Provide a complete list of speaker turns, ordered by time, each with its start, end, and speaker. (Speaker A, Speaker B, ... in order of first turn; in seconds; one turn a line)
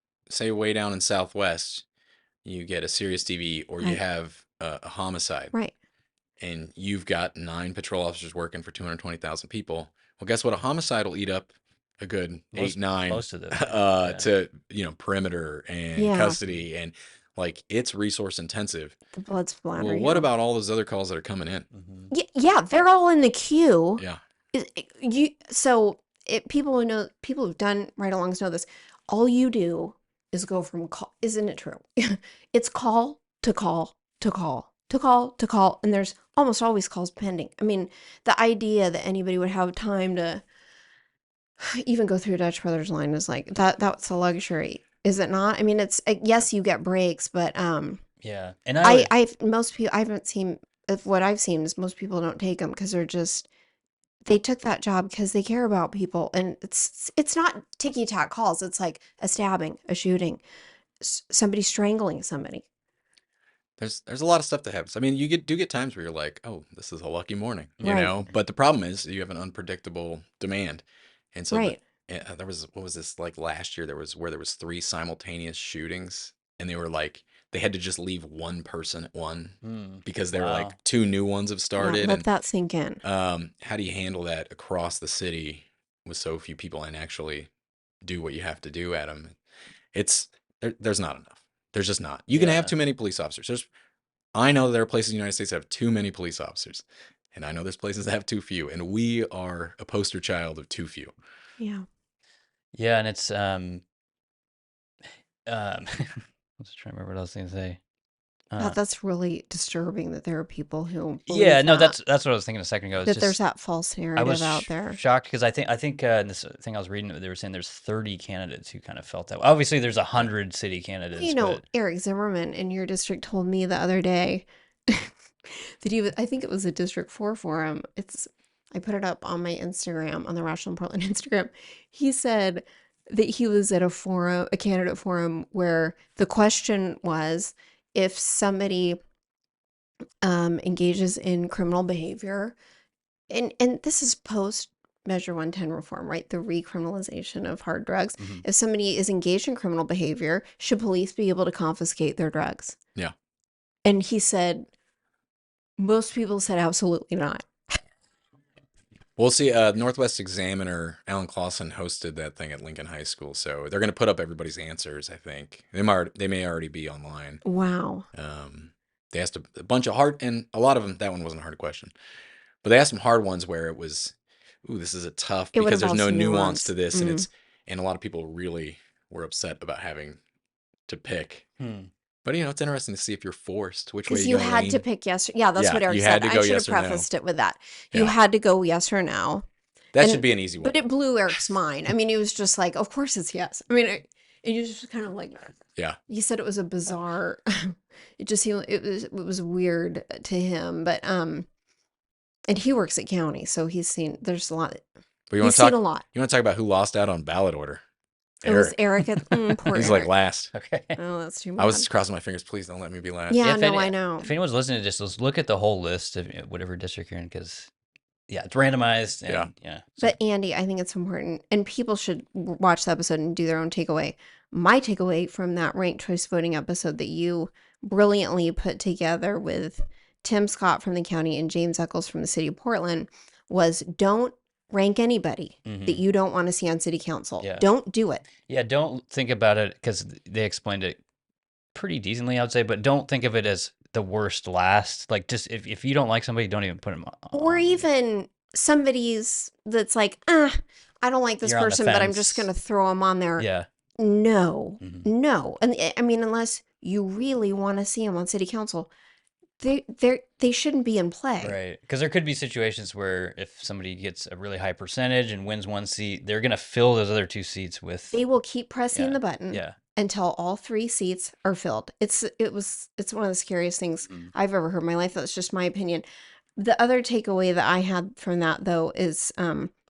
Speaker A: 0.3-1.8
Speaker A: 2.5-5.5
Speaker A: 6.4-19.0
Speaker B: 12.5-14.3
Speaker C: 16.0-16.4
Speaker C: 19.1-20.3
Speaker A: 19.8-21.7
Speaker B: 21.7-22.1
Speaker C: 22.1-40.4
Speaker C: 41.6-48.0
Speaker B: 48.2-49.1
Speaker C: 48.8-53.5
Speaker C: 54.2-60.4
Speaker C: 61.0-62.6
Speaker A: 63.8-82.3
Speaker C: 67.8-68.2
Speaker C: 71.5-71.8
Speaker B: 79.6-80.8
Speaker C: 81.8-83.0
Speaker A: 83.0-87.5
Speaker A: 88.0-89.4
Speaker A: 89.9-93.7
Speaker B: 92.3-92.7
Speaker A: 94.3-101.2
Speaker C: 101.6-101.8
Speaker B: 102.7-103.8
Speaker B: 105.5-107.8
Speaker B: 108.5-108.8
Speaker C: 108.6-112.0
Speaker B: 111.3-113.4
Speaker C: 113.0-115.0
Speaker B: 114.2-121.6
Speaker C: 121.2-139.0
Speaker C: 140.2-142.6
Speaker C: 143.3-152.8
Speaker B: 148.2-148.4
Speaker C: 153.8-154.7
Speaker C: 155.8-157.5
Speaker A: 159.2-167.4
Speaker C: 167.4-168.1
Speaker A: 168.1-171.9
Speaker A: 172.6-180.2
Speaker C: 175.6-177.3
Speaker A: 180.9-181.5
Speaker B: 181.6-181.9
Speaker A: 182.2-184.8
Speaker C: 184.1-189.4
Speaker A: 185.6-187.1
Speaker A: 189.9-190.8
Speaker C: 190.0-195.6
Speaker C: 196.1-201.5
Speaker C: 202.5-204.8
Speaker A: 205.3-207.8
Speaker C: 205.4-206.1
Speaker A: 208.4-208.9
Speaker C: 208.5-210.1
Speaker A: 209.7-210.5
Speaker B: 210.5-211.0
Speaker C: 211.0-211.9
Speaker A: 211.6-213.5
Speaker C: 213.3-214.3
Speaker B: 213.4-217.7
Speaker B: 218.3-220.2
Speaker C: 220.0-238.2
Speaker B: 235.7-236.0
Speaker B: 237.4-237.7
Speaker B: 238.4-241.0
Speaker B: 241.8-247.8
Speaker C: 247.3-253.5
Speaker B: 251.4-252.5
Speaker B: 253.4-253.7
Speaker C: 254.0-258.9
Speaker B: 254.8-255.1
Speaker C: 259.6-261.6
Speaker B: 261.4-268.2
Speaker C: 268.1-276.1
Speaker B: 268.9-269.8
Speaker C: 276.6-279.7